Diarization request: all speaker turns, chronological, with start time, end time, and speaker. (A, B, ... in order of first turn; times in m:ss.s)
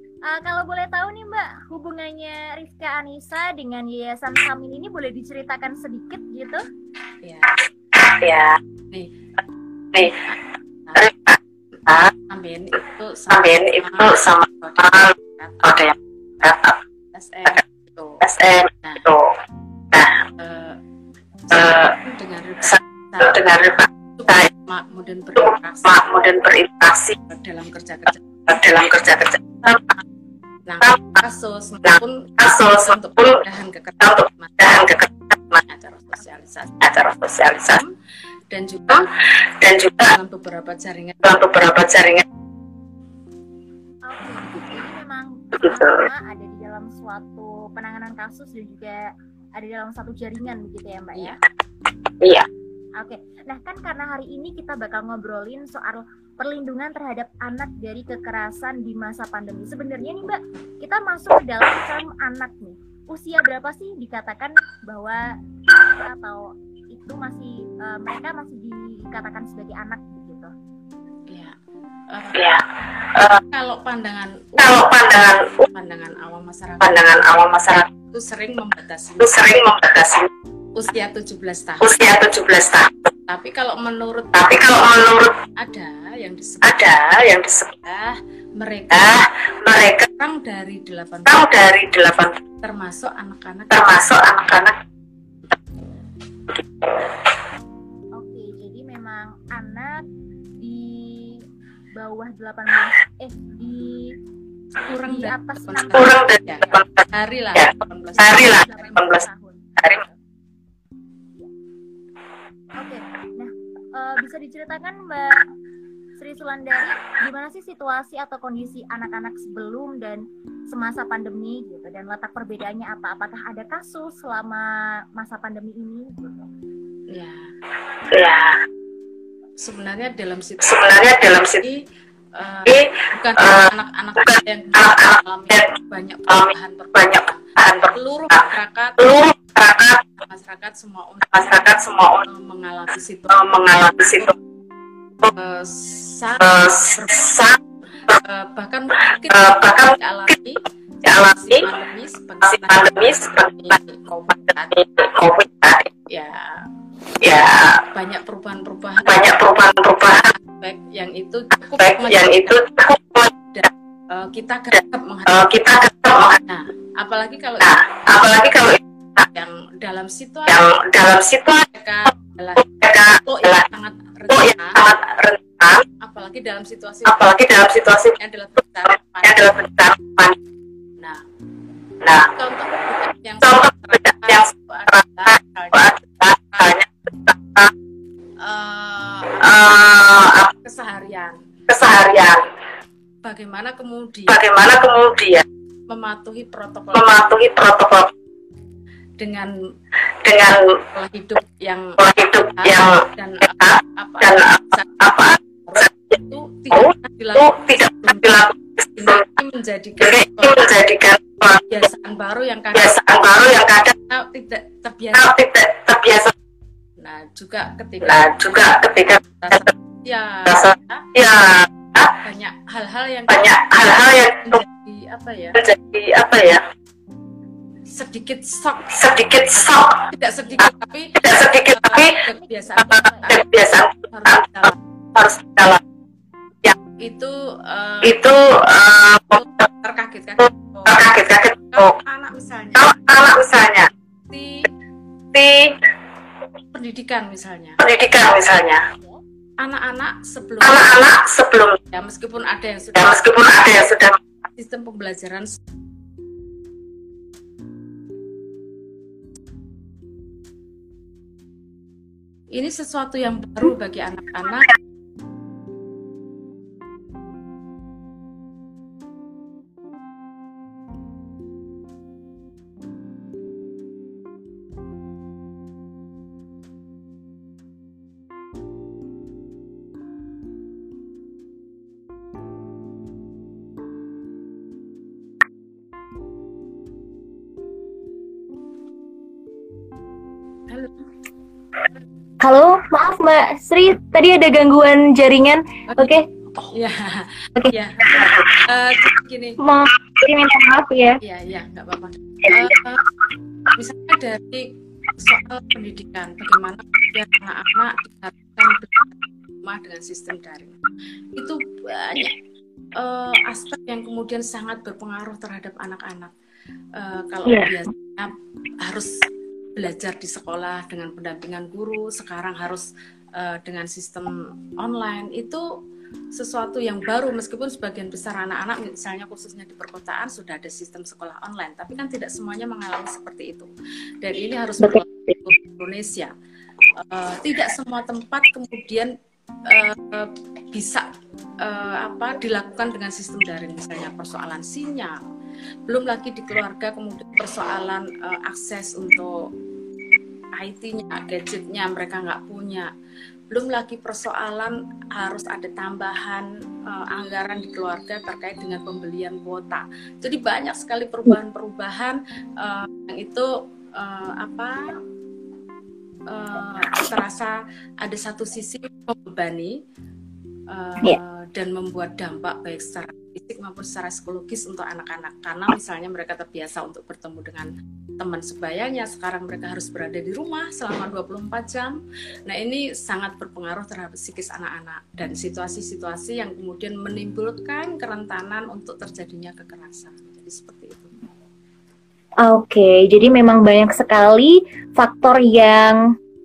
0:00.2-0:06.6 A
0:07.2-0:07.6 B
0:08.0-0:08.6 C
0:10.0-0:11.1 B
0:11.0-0:12.1 C
0:12.3-0:15.9 B
0:13.3-0:16.8 C
0:17.1-0:18.2 B
0:18.2-0:19.4 C
0:18.8-0:19.1 B
0:19.9-0:20.2 C
0:20.4-0:20.8 B
0:21.5-0:23.4 B
0:21.5-0:22.0 C
0:22.7-0:24.5 C
0:24.2-0:26.0 B
0:25.4-0:27.2 C
0:27.3-0:28.4 B
0:28.5-0:29.8 C
0:30.7-0:34.8 B
0:31.9-0:33.4 C
0:34.0-0:35.6 C
0:35.6-0:36.9 B
0:36.8-0:37.8 C
0:37.5-0:37.9 B
0:38.5-0:39.1 B
0:39.6-0:40.1 C
0:40.0-0:41.2 B
0:41.2-0:42.2 C
0:44.1-0:51.4 A
0:45.6-0:46.0 C
0:52.2-0:52.5 C
0:53.0-1:10.5 A
1:11.3-1:11.6 B
1:12.1-1:12.4 B
1:12.4-1:12.6 C
1:13.1-1:13.4 C
1:13.5-1:14.9 B
1:14.6-1:15.6 C
1:15.7-1:17.0 B
1:16.8-1:17.9 C
1:18.1-1:19.5 B
1:19.2-1:20.3 C
1:20.8-1:22.0 B
1:21.8-1:23.1 C
1:23.3-1:24.4 B
1:24.3-1:25.4 C
1:25.6-1:26.9 B
1:26.6-1:27.7 C
1:27.8-1:29.2 B
1:28.9-1:30.1 C
1:30.1-1:31.5 B
1:31.3-1:32.4 C
1:32.6-1:34.0 B
1:33.7-1:34.8 C
1:38.2-1:40.0 A
1:40.6-1:44.2 A
1:44.8-1:49.0 B
1:45.0-1:46.8 A
1:45.9-1:47.0 C
1:47.6-1:49.3 C
1:48.1-1:49.7 A
1:49.8-1:50.0 C
1:52.8-1:55.4 A
1:56.2-2:06.3 A
2:07.1-2:07.5 B
2:08.1-2:08.6 C
2:09.6-2:10.8 B
2:10.6-2:11.6 C
2:11.6-2:19.2 B
2:12.7-2:13.7 C
2:14.2-2:15.7 C
2:16.3-2:18.4 C
2:19.0-2:20.0 C
2:20.2-2:23.5 B
2:21.3-2:22.2 C
2:23.3-2:24.3 C
2:25.3-2:27.4 B
2:26.4-2:27.6 C
2:28.1-2:34.8 B
2:29.3-2:30.0 C
2:31.0-2:31.7 C
2:32.5-2:33.7 C
2:34.7-2:35.9 C
2:36.1-2:36.7 B
2:37.2-2:37.8 C
2:37.9-2:39.3 B
2:39.0-2:40.3 C
2:40.2-2:42.6 B
2:41.8-2:43.3 C
2:43.4-2:45.5 B
2:45.3-2:46.4 C
2:46.5-2:47.8 B
2:47.6-2:48.8 C
2:49.3-2:50.7 B
2:50.5-2:51.7 C
2:51.7-2:55.0 B
2:52.7-2:53.7 C
2:54.3-2:55.8 C
2:56.0-2:57.2 B
2:57.1-2:58.2 C
2:58.2-2:59.5 B
2:59.2-3:00.4 C
3:01.0-3:01.2 B
3:02.0-3:02.3 C
3:02.3-3:06.0 B
3:03.4-3:07.7 C
3:08.4-3:11.5 B
3:09.4-3:10.5 C
3:11.7-3:12.5 C
3:13.2-3:14.4 B
3:14.3-3:15.4 C
3:15.9-3:17.2 B
3:17.0-3:18.1 C
3:19.2-3:19.5 B
3:20.2-3:20.8 C
3:20.9-3:22.0 B
3:22.0-3:25.9 C
3:22.6-3:25.0 B
3:25.7-3:30.6 B
3:26.7-3:29.2 C
3:30.0-3:31.7 C
3:31.6-3:33.0 B
3:32.7-3:34.0 C
3:34.1-3:35.3 B
3:35.2-3:36.3 C
3:37.0-3:38.3 B
3:38.0-3:39.7 C
3:39.3-3:41.1 B
3:40.5-3:42.2 C
3:42.2-3:45.6 B
3:43.3-3:44.6 C
3:45.6-3:46.6 C
3:47.9-3:48.9 B
3:48.9-3:50.1 C
3:50.0-3:53.4 B
3:51.2-3:52.2 C
3:52.4-3:53.4 A
3:53.3-3:55.8 C
3:54.1-3:54.8 B
3:57.0-3:58.2 B
3:58.0-3:59.4 C
3:59.3-4:01.1 B
4:00.9-4:02.0 C
4:01.7-4:03.0 B
4:02.8-4:03.9 C
4:04.3-4:04.7 B
4:05.3-4:05.8 C
4:06.7-4:07.8 B
4:07.8-4:08.8 C
4:09.6-4:11.0 B
4:10.6-4:11.8 C
4:11.9-4:13.3 B
4:13.0-4:14.2 C
4:14.6-4:15.6 B
4:22.5-4:24.7 B
4:50.7-4:50.9 B
4:52.4-4:56.3 A
4:55.9-4:59.6 B
4:59.6-5:01.2 A
5:01.2-5:03.0 B
5:03.7-5:10.8 B
5:11.4-5:12.3 B
5:13.0-5:16.3 B
5:17.0-5:19.2 B
5:19.8-5:25.7 B
5:26.3-5:33.7 B
5:34.2-5:36.3 B
5:37.0-5:39.1 B
5:39.7-5:41.1 B
5:41.6-5:45.2 B
5:45.9-5:49.4 B
5:50.6-5:52.9 B
5:53.5-6:04.9 B
6:06.3-6:09.8 B
6:10.7-6:31.3 B
6:32.4-6:36.1 A